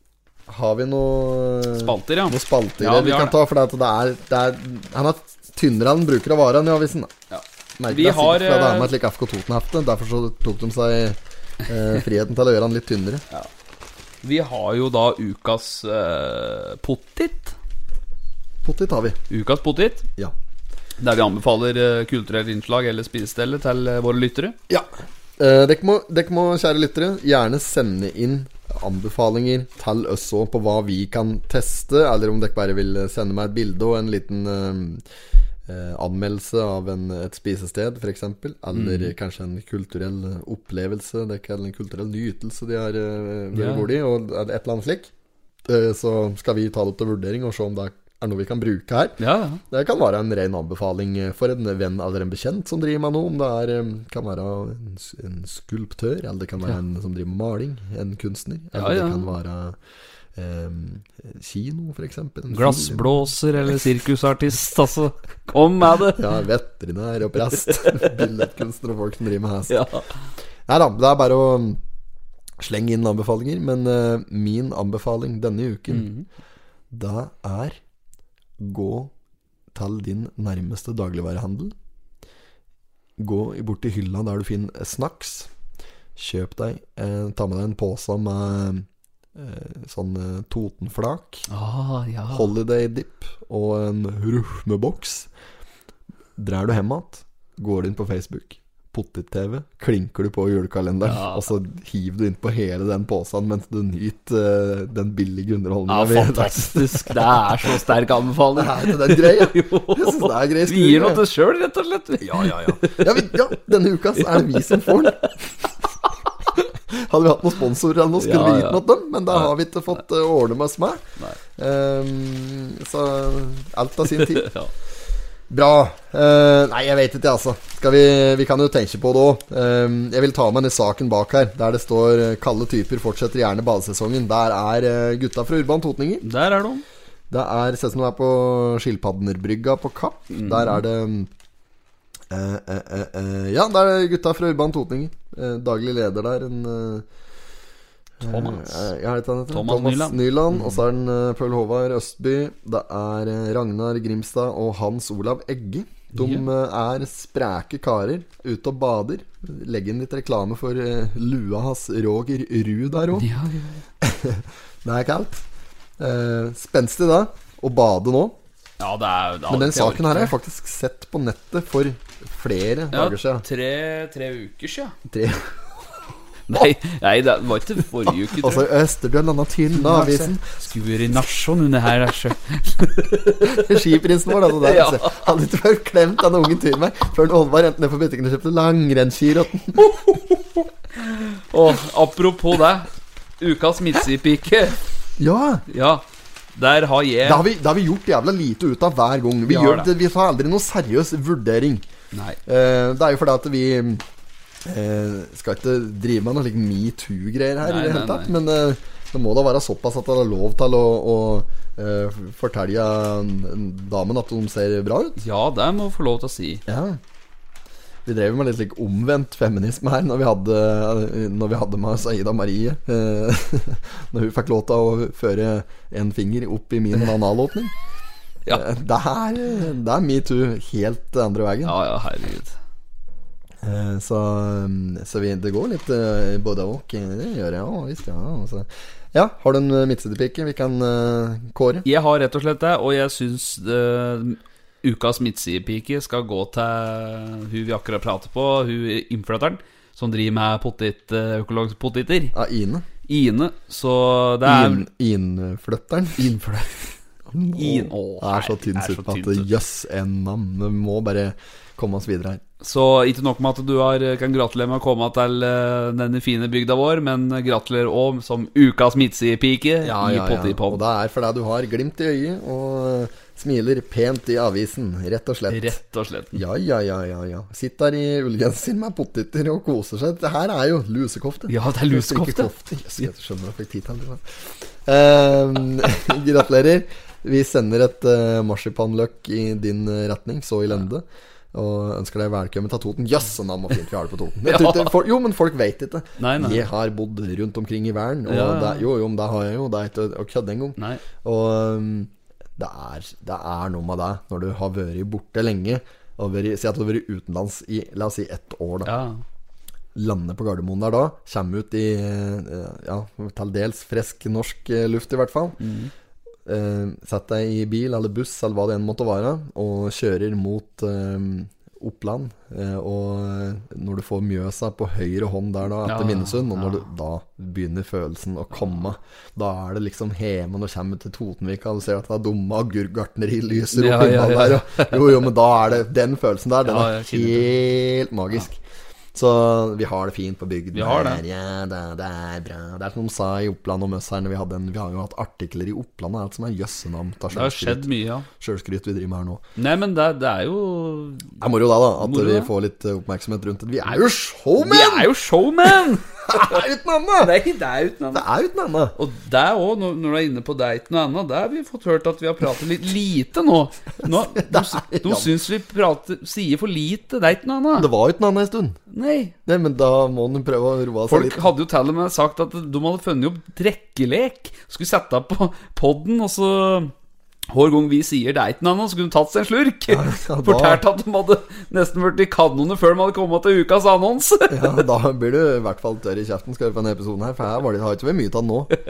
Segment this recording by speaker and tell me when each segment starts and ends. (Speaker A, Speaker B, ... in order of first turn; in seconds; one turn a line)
Speaker A: 0.5-7.1
Speaker B: 1.8-3.4
Speaker B: 7.3-8.9
Speaker A: 7.8-13.2
Speaker B: 14.2-17.6
Speaker A: 18.6-19.2
Speaker B: 19.3-20.1
Speaker B: 21.0-24.6
Speaker A: 24.7-35.0
Speaker A: 35.6-45.1
Speaker B: 38.7-39.1
Speaker B: 43.5-43.9
Speaker A: 45.6-59.8
Speaker B: 49.2-49.6
Speaker B: 58.7-59.3
Speaker A: 60.3-63.1
Speaker B: 62.5-66.3
Speaker A: 66.1-69.8
Speaker B: 67.8-68.1
Speaker B: 69.7-70.0
Speaker A: 70.7-71.8
Speaker A: 72.6-76.1
Speaker B: 75.9-76.2
Speaker A: 76.9-77.8
Speaker A: 78.6-79.1
Speaker A: 79.7-81.7
Speaker A: 83.2-85.5
Speaker A: 86.2-91.5
Speaker B: 91.5-92.5
Speaker A: 92.3-95.3
Speaker A: 96.4-107.7
Speaker B: 101.0-101.5
Speaker B: 105.9-113.3
Speaker A: 108.5-111.2
Speaker A: 112.2-115.5
Speaker B: 114.2-115.2
Speaker A: 116.9-124.5
Speaker B: 118.2-119.5
Speaker B: 124.2-124.7
Speaker A: 125.5-136.2
Speaker B: 136.2-136.8
Speaker A: 137.3-141.3
Speaker B: 140.3-140.8
Speaker A: 142.3-147.1
Speaker A: 148.2-163.3
Speaker B: 148.2-148.9
Speaker B: 149.5-150.8
Speaker B: 156.1-156.4
Speaker B: 163.1-163.8
Speaker A: 164.0-165.4
Speaker A: 166.0-168.4
Speaker B: 168.8-170.3
Speaker A: 169.5-173.4
Speaker B: 172.9-174.9
Speaker A: 175.1-175.5
Speaker B: 176.5-178.7
Speaker A: 178.2-180.4
Speaker B: 179.7-183.7
Speaker A: 183.4-190.0
Speaker B: 184.5-185.3
Speaker B: 189.9-190.2
Speaker B: 191.1-192.9
Speaker B: 193.4-194.8
Speaker A: 195.2-195.6
Speaker B: 195.7-197.4
Speaker A: 197.2-201.8
Speaker B: 199.4-199.9
Speaker B: 202.1-202.4
Speaker A: 202.4-204.0
Speaker A: 204.6-215.2
Speaker B: 207.6-208.3
Speaker B: 215.2-216.6
Speaker A: 216.7-217.0
Speaker A: 218.1-227.7
Speaker A: 228.5-231.7
Speaker B: 231.6-232.5
Speaker A: 233.6-241.8
Speaker B: 241.8-252.3
Speaker A: 252.3-252.8
Speaker B: 253.1-254.8
Speaker A: 254.4-256.4
Speaker B: 256.2-256.8
Speaker A: 257.3-262.4
Speaker B: 257.5-259.5
Speaker B: 262.6-270.8
Speaker A: 269.8-275.7
Speaker B: 275.5-276.4
Speaker A: 276.3-308.9
Speaker B: 281.5-283.1
Speaker B: 294.4-294.9
Speaker B: 296.2-296.7
Speaker B: 298.3-298.8
Speaker B: 300.8-301.0
Speaker B: 308.9-309.2
Speaker A: 309.9-315.6
Speaker B: 315.6-315.9
Speaker A: 316.4-338.6
Speaker B: 325.9-326.9
Speaker B: 333.7-335.2
Speaker B: 336.6-337.5
Speaker A: 339.1-349.4
Speaker B: 340.7-341.2
Speaker B: 347.3-348.3
Speaker B: 349.6-351.4
Speaker A: 351.4-355.1
Speaker B: 352.0-352.5
Speaker B: 354.6-356.6
Speaker A: 356.2-357.3
Speaker B: 357.2-358.2
Speaker A: 358.1-358.9
Speaker B: 358.9-367.9
Speaker A: 364.0-365.3
Speaker A: 367.8-368.8
Speaker B: 368.9-369.3
Speaker A: 369.4-371.4
Speaker B: 371.1-376.9
Speaker B: 377.5-384.8
Speaker A: 379.9-380.8
Speaker A: 384.5-388.7